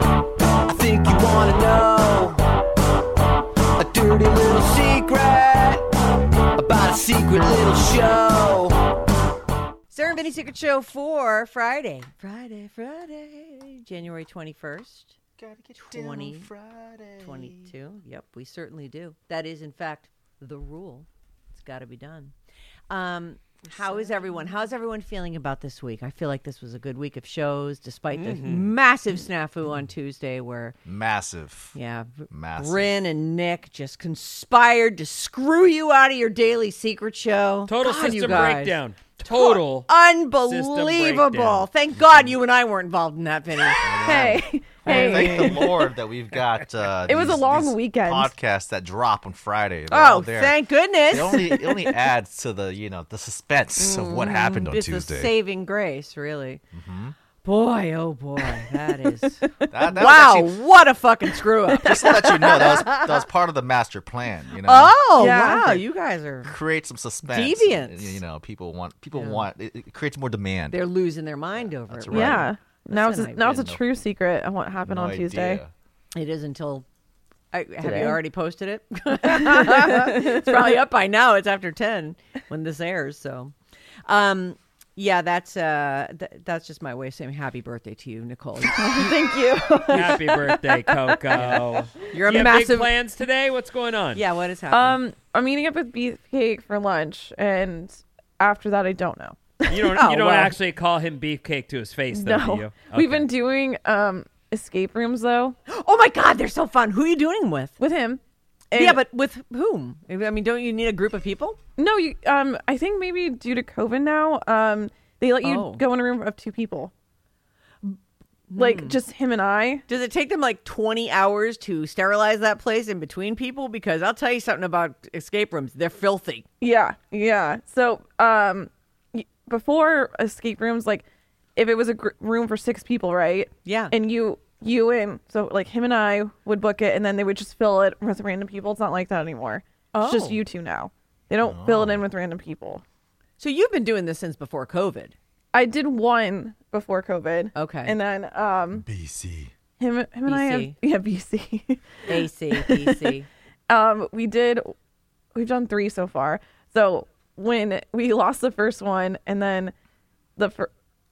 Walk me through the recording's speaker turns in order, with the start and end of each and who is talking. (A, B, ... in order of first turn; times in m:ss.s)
0:00.7-0:02.4 A
0:03.8-0:05.8 A
0:06.6-0:08.8 A
0:09.9-0:15.2 B
0:10.0-0:10.5 C
0:15.4-0:17.7 C
0:15.8-0:16.5 B
0:17.2-0:22.3 B
0:22.9-0:30.8 B
0:28.1-0:28.7 D
0:30.8-0:31.8 C
0:31.7-0:44.3 B
0:32.3-0:32.9 C
0:37.7-0:41.7 D
0:42.0-0:42.3 C
0:43.6-0:45.9 E
0:43.8-0:50.6 C
0:44.8-0:45.6 B
0:47.1-0:48.3 E
0:49.9-0:51.9 B
0:51.1-0:55.3 C
0:53.8-0:56.6 B
0:56.7-0:57.2 C
0:57.4-1:03.2 B
0:59.7-1:00.6 C
1:01.8-1:05.0 C
1:04.6-1:06.5 B
1:05.2-1:05.8 E
1:06.4-1:10.8 C
1:07.3-1:08.2 B
1:09.1-1:09.5 B
1:10.7-1:13.7 B
1:11.6-1:12.5 C
1:12.1-1:15.6 E
1:13.4-1:13.8 C
1:14.8-1:15.7 C
1:16.1-1:16.8 B
1:17.5-1:23.5 B
1:17.8-1:18.2 E
1:19.2-1:20.8 E
1:24.0-1:29.2 B
1:28.7-1:31.4 E
1:29.9-1:34.2 D
1:31.3-1:32.9 B
1:34.1-1:35.0 B
1:34.7-1:40.0 E
1:39.7-1:43.3 D
1:39.9-1:40.6 B
1:42.1-1:45.6 E
1:45.7-1:47.8 B
1:47.8-1:49.0 E
1:48.8-1:51.6 B
1:51.8-1:56.9 E
1:55.4-1:55.8 B
1:58.5-1:59.0 B
1:58.6-1:59.8 E
1:59.9-2:06.4 B
2:06.6-2:11.0 E
2:11.6-2:22.8 E
2:13.6-2:13.9 B
2:19.9-2:20.4 B
2:21.4-2:22.0 C
2:23.4-2:25.1 B
2:25.5-2:28.8 E
2:27.5-2:28.0 B
2:28.7-2:29.5 C
2:29.8-2:33.1 E
2:30.3-2:30.8 B
2:32.1-2:33.3 B
2:33.7-2:34.7 E
2:35.3-2:39.7 E
2:40.4-2:40.7 E